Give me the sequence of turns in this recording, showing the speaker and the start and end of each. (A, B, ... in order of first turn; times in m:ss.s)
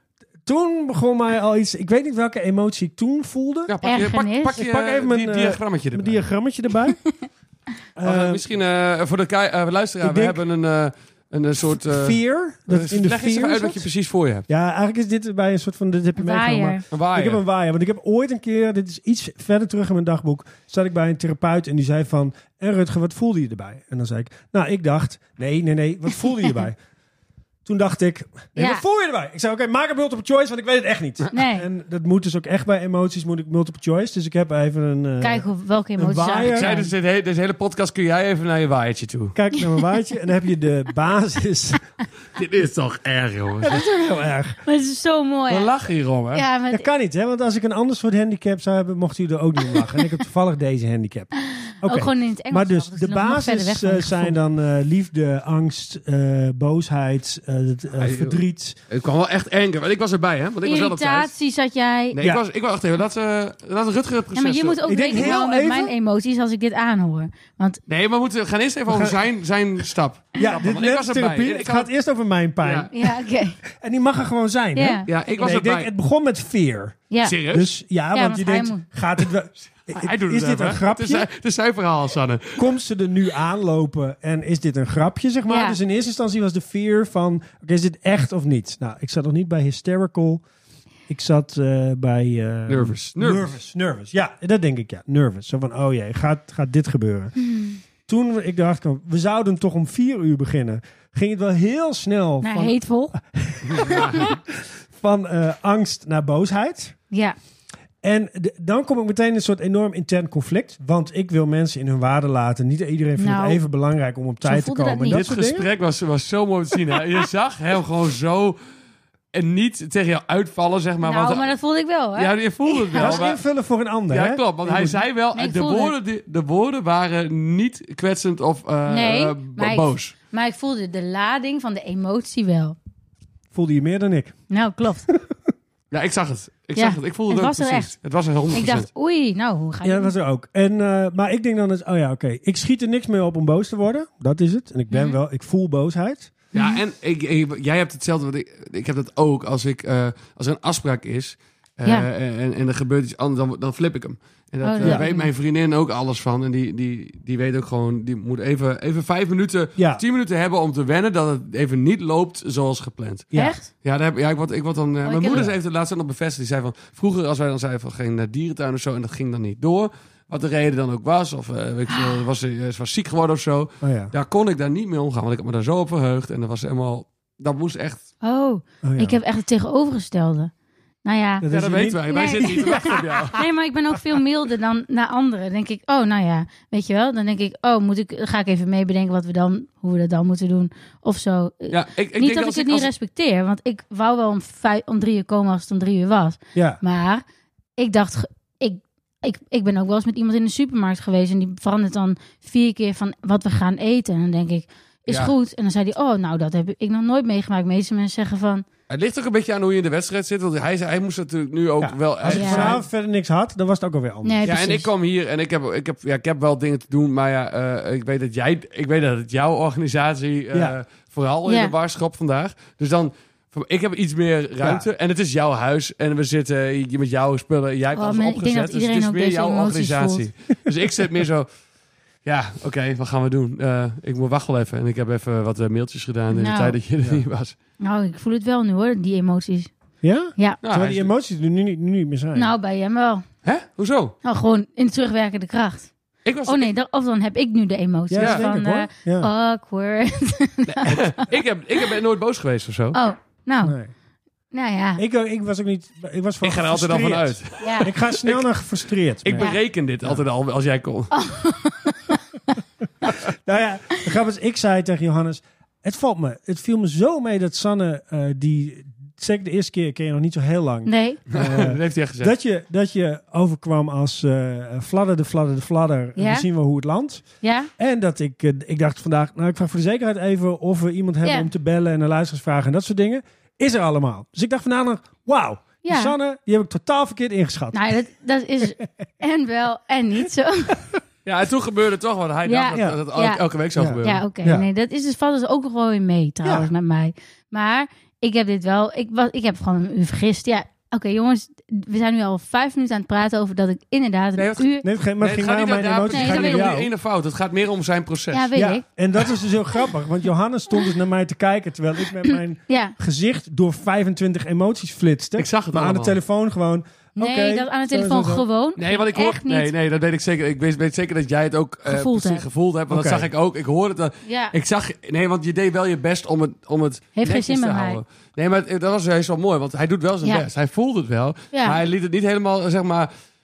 0:00.4-0:03.7 A
0:03.7-0:06.2 B
0:03.8-0:04.6 C
0:04.6-0:07.0 A
0:08.0-0:08.4 A
0:08.0-0:14.4 B
0:10.0-0:10.4 A
0:11.8-0:13.8 A
0:14.5-0:26.8 A
0:16.2-0:16.8 C
0:16.9-0:17.4 B
0:27.6-0:35.4 A
0:28.6-0:28.8 C
0:31.3-0:31.6 C
0:35.2-0:36.9 C
0:36.0-0:36.8 A
0:36.4-0:39.4 B
0:39.3-0:41.9 A
0:42.3-0:43.8 B
0:43.6-0:44.6 A
0:44.6-0:45.7 C
0:45.5-0:46.4 B
0:46.3-0:46.8 C
0:46.7-0:51.3 A
0:51.4-0:54.4 C
0:51.8-0:58.8 A
0:58.0-1:01.3 B
1:00.6-1:02.2 C
1:02.1-1:05.3 B
1:04.3-1:07.8 C
1:04.8-1:05.9 A
1:07.9-1:11.9 B
1:10.4-1:13.1 A
1:12.6-1:12.9 B
1:12.9-1:13.6 C
1:13.7-1:21.3 A
1:14.7-1:15.1 C
1:15.1-1:15.9 B
1:17.1-1:17.4 C
1:17.2-1:17.7 B
1:18.1-1:18.8 C
1:19.9-1:22.7 B
1:22.6-1:30.4 A
1:25.5-1:25.8 C
1:31.1-1:37.4 A
1:32.7-1:33.5 B
1:37.5-1:37.8 C
1:38.1-1:47.0 A
1:42.4-1:43.1 C
1:43.7-1:44.3 B
1:43.9-1:44.2 C
1:47.1-1:47.4 C
1:48.0-1:55.7 A
1:53.2-1:53.6 C
1:54.4-1:55.2 C
1:55.1-1:58.6 B
1:59.3-2:01.5 B
2:01.0-2:03.2 C
2:02.1-2:03.4 B
2:03.0-2:05.0 A
2:04.1-2:10.1 B
2:05.3-2:05.9 C
2:08.9-2:12.8 C
2:13.5-2:14.4 A
2:14.5-2:15.1 C
2:15.9-2:18.9 B
2:16.7-2:17.9 C
2:18.5-2:20.1 C
2:19.8-2:26.3 A
2:24.9-2:25.2 C
2:26.5-2:58.1 B
2:26.5-2:26.8 C
2:34.6-2:35.3 C
2:39.8-2:40.0 A
2:43.3-2:43.6 A
2:43.3-2:43.7 C
2:45.0-2:45.5 C
2:45.3-2:45.5 A
2:53.8-2:54.1 A
2:58.2-3:00.5 C
2:58.8-2:59.2 A
3:01.0-3:01.5 C
3:01.4-3:03.4 A
3:01.5-3:03.4 B
3:02.1-3:17.2 C
3:11.7-3:12.9 B
3:16.5-3:16.8 A
3:17.8-3:28.6 C
3:25.1-3:25.3 B
3:28.9-3:32.8 B
3:31.8-3:34.6 A
3:32.3-3:32.8 C
3:34.2-3:34.9 C
3:34.4-3:51.5 B
3:41.4-3:41.7 C
3:44.6-3:44.9 A
3:47.9-3:50.2 C
3:52.2-3:57.5 B
3:56.3-3:56.8 C
3:57.8-3:59.7 C
4:00.0-4:02.5 A
4:00.6-4:01.1 B
4:02.3-4:03.2 C
4:03.4-4:04.1 B
4:04.2-4:05.9 C
4:06.2-4:06.7 B
4:06.4-4:11.2 C
4:08.1-4:09.3 A
4:08.2-4:08.4 B
4:10.6-4:13.0 B
4:12.9-4:13.8 C
4:13.6-4:13.9 A
4:14.5-4:15.0 C
4:15.0-4:19.5 A
4:16.4-4:18.5 B
4:17.6-4:17.9 C
4:19.2-4:21.1 B
4:19.4-4:19.6 C
4:21.1-4:22.2 C
4:23.2-4:37.2 A
4:30.8-4:31.2 C
4:31.3-4:32.3 B
4:36.2-4:36.4 C
4:37.4-4:37.7 C
4:37.8-4:47.8 A
4:41.2-4:41.5 C
4:45.8-4:46.1 C
4:47.7-4:50.8 C
4:51.2-4:54.2 B
4:52.5-4:53.4 C
4:53.8-4:54.6 A
4:54.0-5:04.8 C
4:56.4-4:56.7 A
5:04.4-5:04.7 B
5:04.8-5:06.9 A
5:05.2-5:08.5 B
5:06.1-5:06.7 C
5:08.3-5:08.8 C
5:08.5-5:18.4 A
5:12.2-5:12.9 C
5:15.4-5:16.2 B
5:17.2-5:19.7 C
5:18.8-5:33.1 B
5:21.8-5:22.4 C
5:22.9-5:23.3 A
5:24.2-5:24.5 C
5:27.1-5:28.0 C
5:31.5-5:31.8 C